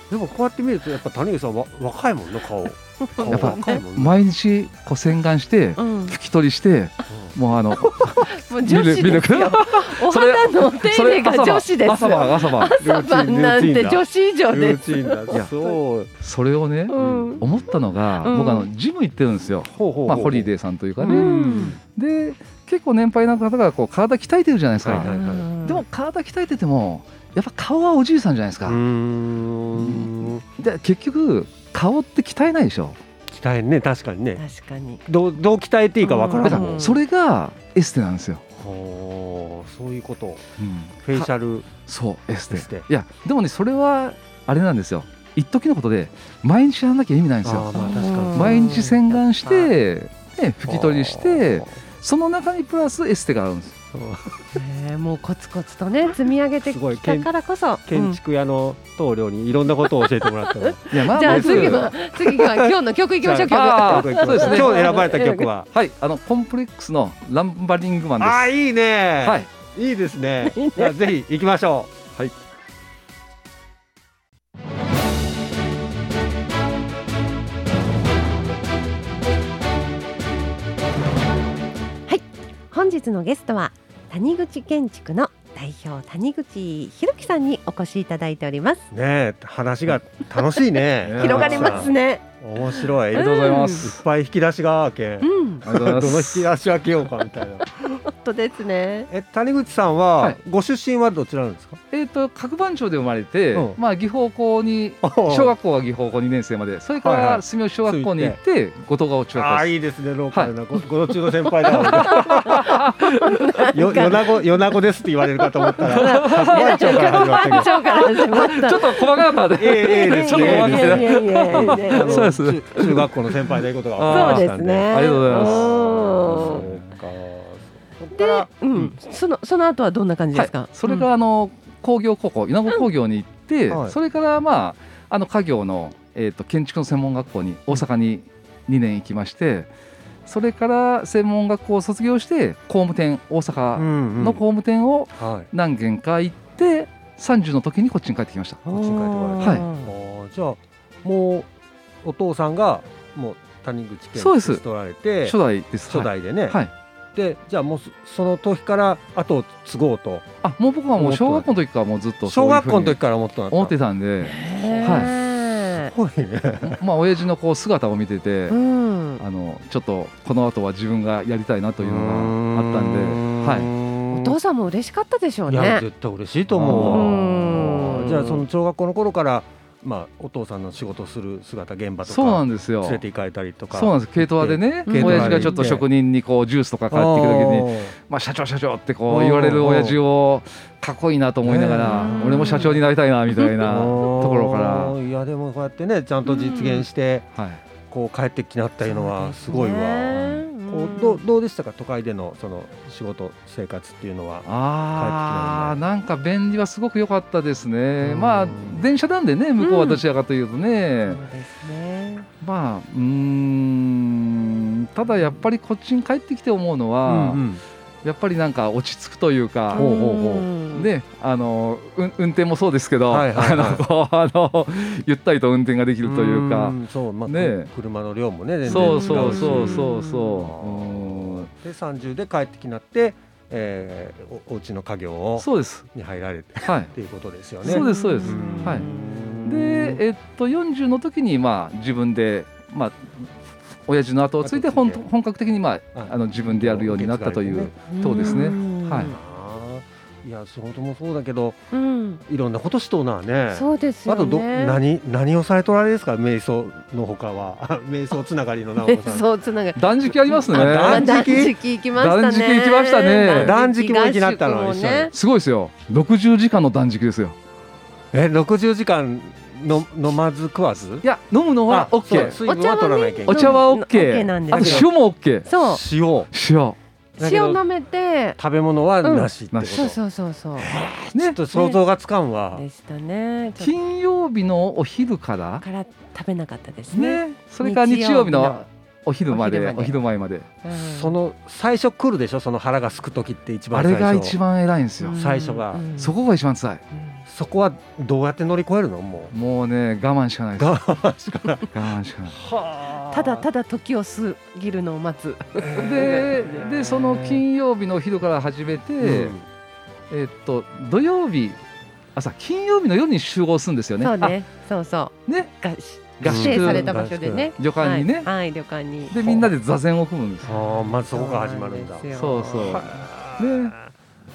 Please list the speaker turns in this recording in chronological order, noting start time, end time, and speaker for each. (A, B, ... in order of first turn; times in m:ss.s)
0:00.1-0:04.2 A
0:03.0-0:03.8 B
0:03.3-0:12.8 C
0:05.8-0:06.2 B
0:07.1-0:08.1 A
0:08.2-0:15.8 B
0:12.8-0:16.1 A
0:16.2-0:28.8 C
0:16.9-0:17.6 B
0:17.0-0:17.7 A
0:18.2-0:18.7 B
0:19.7-0:20.5 A
0:21.0-0:21.8 B
0:21.0-0:21.8 A
0:24.8-0:25.5 A
0:25.0-0:25.8 B
0:28.7-0:30.4 A
0:29.8-0:33.0 C
0:33.3-0:34.4 A
0:34.4-0:35.0 B
0:35.1-0:37.0 A
0:36.0-0:37.0 B
0:36.4-0:38.4 C
0:38.6-0:40.4 A
0:40.6-0:41.3 C
0:41.0-0:41.7 A
0:41.9-0:53.8 C
0:42.5-0:42.9 A
0:47.4-0:49.0 A
0:47.7-0:49.7 B
0:50.7-0:51.6 A
0:53.9-0:54.6 A
0:54.6-0:58.2 B
0:56.6-0:57.3 A
0:57.9-1:05.7 A
0:59.9-1:05.5 B
1:00.9-1:02.0 C
1:03.5-1:04.9 C
1:05.7-1:08.5 C
1:08.2-1:11.9 A
1:09.2-1:09.5 C
1:10.4-1:11.1 B
1:22.1-1:28.8 B
1:28.9-1:37.6 A
1:30.6-1:33.9 B
1:31.0-1:31.9 C
1:33.1-1:34.0 C
1:35.2-1:35.7 B
1:35.6-1:36.5 C
1:37.8-1:39.1 B
1:39.1-1:41.8 A
1:41.9-1:49.8 C
1:43.5-1:43.8 A
1:45.0-1:45.6 A
1:47.0-1:48.4 A
1:49.3-1:52.7 A
1:51.6-1:53.5 C
1:52.4-1:54.4 B
1:53.7-1:57.7 A
1:55.6-2:02.3 B
1:55.7-2:07.0 C
1:59.5-2:08.5 A
2:04.1-2:06.7 B
2:08.1-2:11.1 B
2:10.3-2:19.7 C
2:13.7-2:14.0 A
2:20.3-2:28.8 C
2:23.8-2:24.4 A
2:25.2-2:25.5 A
2:28.7-2:31.5 A
2:28.7-2:29.9 B
2:29.4-2:29.7 C
2:32.0-2:36.6 A
2:34.2-2:34.6 C
2:35.2-2:36.7 C
2:37.2-2:40.3 A
2:40.4-2:43.0 C
2:41.0-2:41.6 A
2:42.2-2:43.8 A
2:43.5-2:45.2 C
2:44.2-2:45.9 B
2:45.8-2:46.8 A
2:46.6-2:48.6 C
2:48.5-2:49.2 B
2:49.2-2:53.7 C
2:51.8-2:54.4 A
2:54.1-2:55.9 B
2:55.5-3:05.9 A
2:56.5-2:57.2 C
2:56.7-2:58.4 B
3:02.0-3:03.0 C
3:03.7-3:15.0 C
3:04.9-3:05.8 B
3:06.9-3:08.0 A
3:09.1-3:10.0 A
3:11.4-3:12.8 A
3:11.8-3:12.8 B
3:13.7-3:17.3 A
3:16.3-3:16.9 B
3:17.3-3:17.6 C
3:17.9-3:25.8 A
3:19.0-3:19.6 C
3:19.0-3:21.2 B
3:20.1-3:20.5 C
3:24.5-3:31.2 C
3:28.0-3:28.8 A
3:29.6-3:30.0 B
3:31.1-3:32.3 B
3:32.4-3:37.5 C
3:37.0-3:37.6 A
3:38.0-3:39.9 C
3:39.7-3:40.9 B
3:39.7-3:40.5 A
3:40.7-3:47.7 C
3:43.1-3:43.8 A
3:46.0-4:00.0 A
3:48.7-3:51.5 C
3:48.7-3:50.4 B
3:55.4-3:55.9 C
3:56.6-3:56.9 C
3:57.6-3:58.9 C
3:57.6-3:59.1 B
3:59.4-4:03.3 C
4:03.9-4:09.2 C
4:04.4-4:05.1 A
4:05.9-4:11.6 A
4:07.9-4:09.2 B
4:11.7-4:12.2 B
4:12.3-4:19.3 A
4:13.5-4:14.8 B
4:18.8-4:25.1 B
4:19.8-4:21.1 C
4:20.5-4:21.6 A
4:21.9-4:23.6 C
4:23.3-4:25.1 A
4:25.1-4:27.4 C
4:28.1-4:31.1 A
4:31.0-4:32.4 C
4:31.7-4:33.6 A
4:32.4-4:34.9 B
4:33.3-4:35.6 C
4:34.6-4:34.9 A
4:35.5-4:35.8 B
4:35.6-4:36.3 A
4:36.3-4:36.8 C
4:37.2-4:37.6 A
4:37.2-4:38.4 B
4:38.4-4:40.0 A
4:39.0-4:40.8 B
4:39.5-4:39.9 C
4:40.6-4:42.6 A
4:41.1-4:41.5 C
4:41.5-4:41.8 B
4:42.5-4:43.7 B
4:43.6-4:45.6 C
4:45.6-4:48.7 B
4:46.9-4:50.5 C
4:49.3-4:50.0 B
4:50.6-4:51.2 B
4:50.8-4:54.4 A
4:53.7-4:55.2 C
4:55.0-4:56.2 B
4:55.2-4:55.9 A
4:56.0-4:56.8 C
4:57.3-4:59.3 A
4:59.3-5:00.8 C
5:00.6-5:01.7 A
5:01.7-5:02.4 C
5:02.3-5:03.5 A
5:03.1-5:06.6 B
5:05.6-5:07.4 A
5:05.8-5:09.4 C
5:09.0-5:09.4 A
5:10.1-5:11.6 C
5:12.2-5:14.4 C
5:14.0-5:19.4 B
5:16.2-5:17.0 C
5:16.2-5:17.5 A
5:17.6-5:18.3 C
5:19.1-5:20.6 C
5:20.5-5:23.8 A
5:20.5-5:22.9 B
5:22.1-5:23.8 C